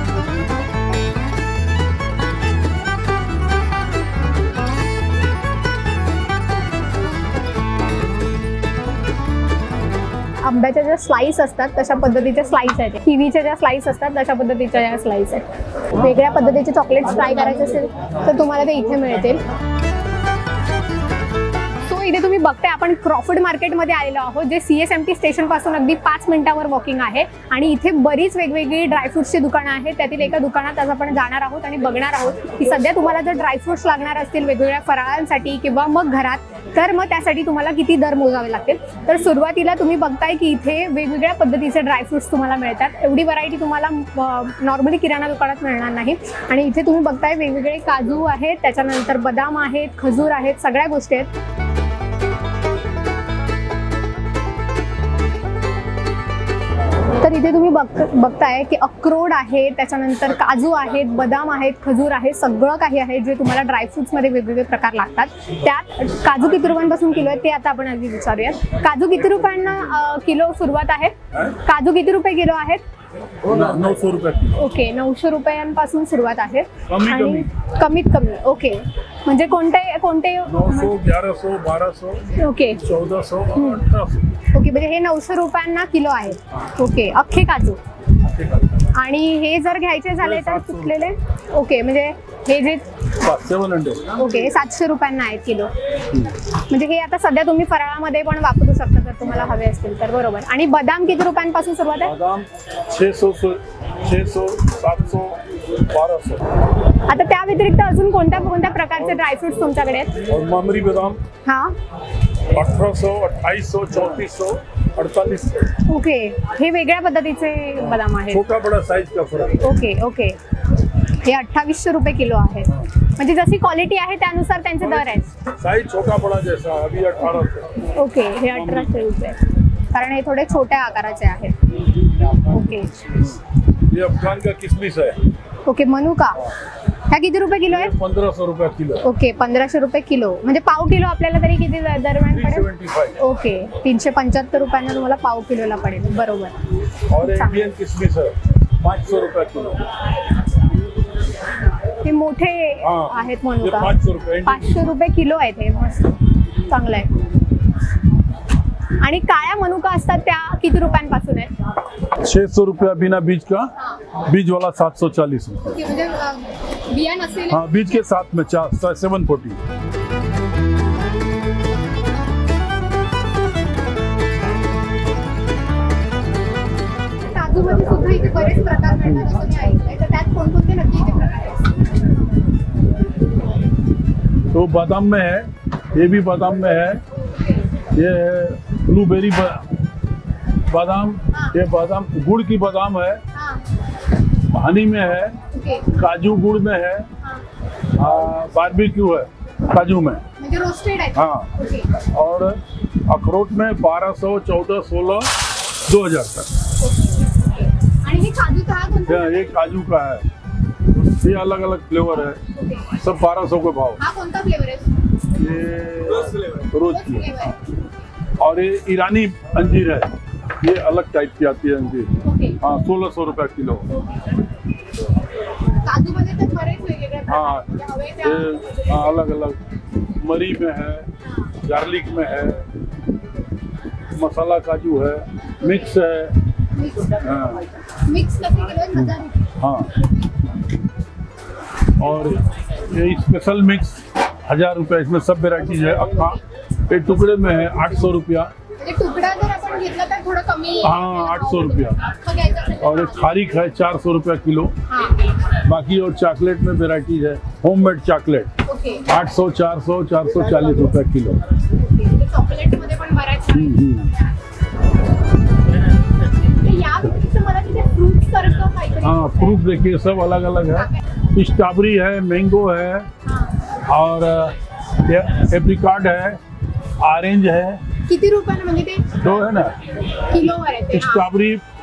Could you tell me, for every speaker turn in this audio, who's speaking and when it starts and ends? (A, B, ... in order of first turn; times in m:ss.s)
0:10.4-0:19.4 A
0:21.9-0:51.3 A
0:57.2-1:12.8 A
1:11.3-1:11.6 B
1:13.4-1:14.6 B
1:14.5-1:20.9 A
1:16.9-1:17.5 B
1:20.4-1:24.4 B
1:22.4-1:22.8 A
1:23.5-1:23.8 A
1:24.5-1:27.8 A
1:28.9-1:32.9 A
1:30.2-1:31.0 B
1:33.2-1:34.2 B
1:34.1-1:35.7 A
1:36.1-1:36.4 B
1:36.5-1:42.1 A
1:42.0-1:46.5 B
1:47.1-1:50.2 A
1:50.2-1:51.2 B
1:51.4-1:51.7 A
1:52.5-1:55.7 B
1:55.8-1:58.4 A
1:58.3-1:59.7 B
1:59.6-2:00.4 A
2:01.1-2:05.3 A
2:04.8-2:07.9 B
2:07.9-2:11.6 A
2:08.5-2:09.0 B
2:12.3-2:13.3 A
2:13.1-2:15.2 B
2:15.6-2:16.5 A
2:17.1-2:17.9 A
2:17.7-2:19.0 B
2:19.0-2:22.7 A
2:22.3-2:23.2 B
2:23.2-2:26.6 A
2:27.1-2:29.9 B
2:27.2-2:27.7 A
2:32.0-2:33.9 A
2:32.8-2:34.8 B
2:34.4-2:37.1 A
2:39.0-2:41.5 A
2:42.2-2:43.7 B
2:44.2-2:45.8 B
2:45.7-2:47.6 A
2:47.5-2:49.6 B
2:57.2-3:01.8 A
3:04.5-3:07.0 B
3:07.2-3:07.7 A
3:07.9-3:09.7 B
3:10.7-3:13.2 B
3:11.3-3:11.6 A
3:13.3-3:13.6 A
3:14.4-3:17.1 B
3:15.5-3:15.9 A
3:17.9-3:20.2 B
3:20.4-3:21.9 A
3:21.1-3:26.5 B
3:26.8-3:29.6 A
3:29.0-3:30.3 B
3:31.0-3:34.0 B
3:32.5-3:33.0 A
3:34.0-3:35.0 A
3:35.3-3:37.4 B
3:36.8-3:37.6 A
3:38.4-3:43.9 B
3:42.2-3:42.6 A
3:45.7-3:48.9 A
3:47.3-3:49.6 B
3:50.2-3:51.1 B
3:51.2-3:51.5 A
3:51.6-3:52.6 B
3:54.1-3:56.4 B
3:56.7-3:57.2 A
3:57.2-3:57.7 B
3:57.8-3:59.5 A
3:59.0-4:00.0 B
4:02.0-4:08.5 B
4:08.8-4:13.3 A
4:10.8-4:12.0 B
4:12.8-4:14.7 B
4:14.9-4:15.2 A
4:15.5-4:18.5 B
4:18.6-4:19.0 A
4:19.1-4:21.4 B
4:21.7-4:24.3 A
4:23.5-4:24.1 B
4:26.4-4:29.6 A
4:29.0-4:33.1 B
4:30.7-4:31.0 A
4:33.2-4:33.7 A
4:33.8-4:36.4 B
4:37.0-4:37.8 B
4:38.1-4:39.3 A
4:39.2-4:39.9 B
4:40.1-4:41.3 A
4:40.9-4:41.6 B